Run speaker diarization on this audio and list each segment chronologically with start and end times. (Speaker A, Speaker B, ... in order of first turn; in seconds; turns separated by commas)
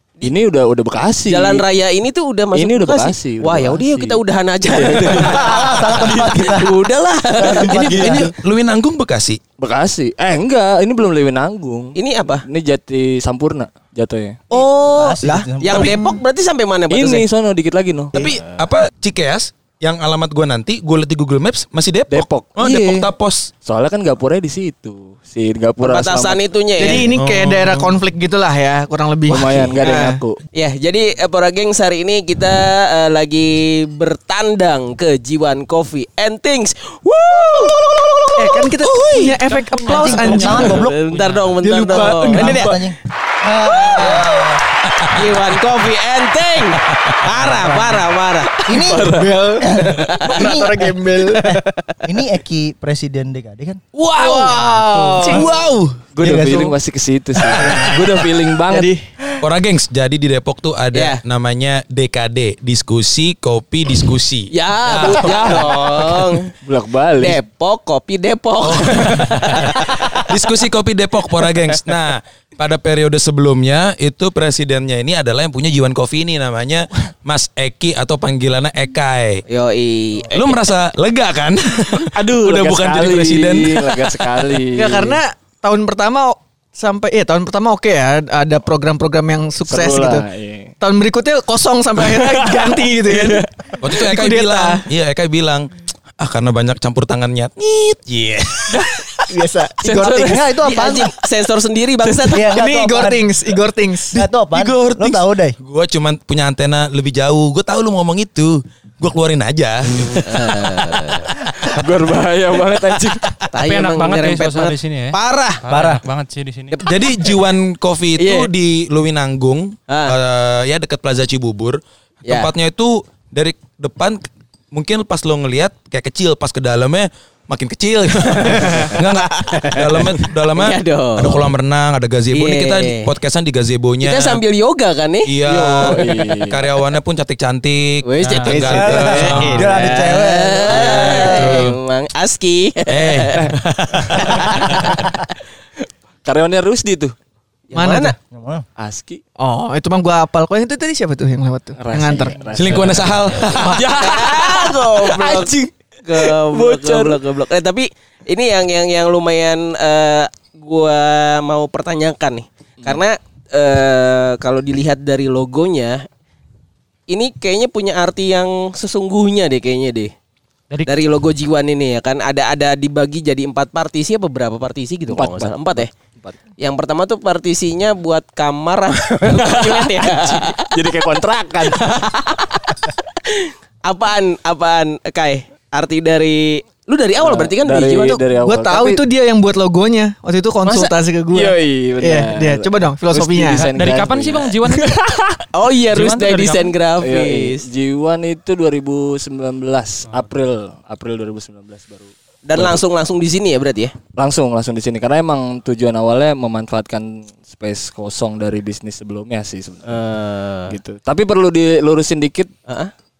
Speaker A: 0.2-1.6, Speaker B: 1.3-7.9, Speaker A: 2.5-5.5, Speaker C: 5.1-8.3, Speaker D: 7.6-9.4, Speaker A: 7.7-8.2, Speaker A: 9.6-14.4, Speaker B: 11.9-12.4, Speaker B: 14.5-17.2, Speaker C: 14.6-16.0, Speaker D: 15.6-16.2, Speaker A: 16.9-18.6, Speaker D: 18.1-23.5, Speaker A: 22.1-23.1, Speaker A: 23.6-26.9, Speaker B: 25.8-27.1, Speaker E: 26.8-30.2, Speaker D: 26.9-27.9, Speaker A: 29.3-30.4, Speaker B: 30.5-38.7, Speaker E: 38.3-40.7, Speaker D: 38.8-39.4, Speaker F: 39.4-41.6, Speaker C: 39.9-40.9, Speaker B: 40.4-42.7, Speaker E: 41.6-42.8, Speaker C: 41.9-44.5, Speaker B: 43.7-44.3, Speaker D: 43.9-45.4, Speaker B: 45.1-48.7, Speaker D: 46.8-47.4, Speaker C: 47.3-48.1, Speaker C: 48.6-53.8, Speaker A: 48.9-49.2, Speaker E: 49.0-51.5, Speaker B: 50.2-50.5, Speaker D: 53.9-56.5, Speaker B: 54.2-55.8, Speaker F: 54.8-55.4, Speaker E: 55.2-55.5, Speaker A: 56.1-58.9, Speaker C: 56.2-56.7, Speaker D: 57.4-58.0, Speaker E: 57.7-59.4, Speaker D: 59.4-66.4, Speaker B: 60.9-61.2, Speaker B: 64.5-66.5, Speaker A: 65.0-65.4, Speaker A: 66.6-67.4, Speaker B: 67.2-70.2, Speaker D: 68.6-79.4, Speaker B: 79.5-80.6, Speaker D: 80.3-84.2, Speaker A: 82.1-85.2, Speaker E: 84.7-90.2, Speaker A: 89.7-90.7, Speaker E: 90.8-94.8, Speaker D: 93.1-99.3, Speaker E: 99.3-100.3, Speaker C: 99.8-101.1, Speaker B: 99.8-102.5, Speaker C: 102.2-103.3, Speaker E: 102.5-104.2, Speaker C: 104.1-105.5, Speaker D: 104.2-110.5, Speaker A: 109.9-110.3, Speaker B: 110.2-111.3, Speaker A: 111.5-113.3, Speaker B: 113.5-115.6, Speaker F: 113.6-116.8, Speaker C: 115.7-116.0, Speaker B: 116.7-117.4, Speaker D: 116.8-134.4, Speaker B: 118.2-118.5, Speaker B: 119.9-120.2, Speaker B: 122.2-122.5, Speaker B: 128.4-131.5, Speaker A: 128.6-128.9, Speaker B: 132.3-133.1, Speaker B: 134.0-135.3, Speaker D: 135.2-140.0, Speaker A: 135.4-136.6, Speaker B: 138.1-143.5, Speaker F: 138.2-138.7, Speaker C: 138.5-141.7, Speaker D: 140.7-141.8, Speaker D: 142.9-145.1, Speaker B: 144.2-145.1, Speaker A: 146.2-147.1, Speaker B: 147.7-148.1, Speaker E: 147.7-148.2, Speaker C: 148.3-148.6, Speaker A: 148.8-149.2, Speaker E: 149.4-152.5, Speaker A: 151.8-157.2, Speaker D: 152.6-153.8, Speaker B: 153.6-155.5, Speaker B: 156.0-166.1, Speaker B: 167.1-170.1, Speaker B: 170.9-175.9, Speaker A: 175.1-176.3, Speaker B: 176.6-180.7, Speaker A: 179.2-182.0, Speaker B: 181.6-182.7, Speaker B: 183.2-188.2, Speaker A: 187.2-189.0, Speaker E: 188.4-193.7, Speaker B: 190.6-190.9, Speaker A: 191.3-194.5, Speaker F: 193.7-195.2, Speaker B: 195.5-197.7, Speaker F: 195.9-196.7, Speaker A: 197.0-202.8, Speaker B: 202.4-203.9, Speaker A: 204.2-210.0, Speaker B: 209.9-210.7, Speaker A: 210.7-212.5, Speaker B: 212.7-212.9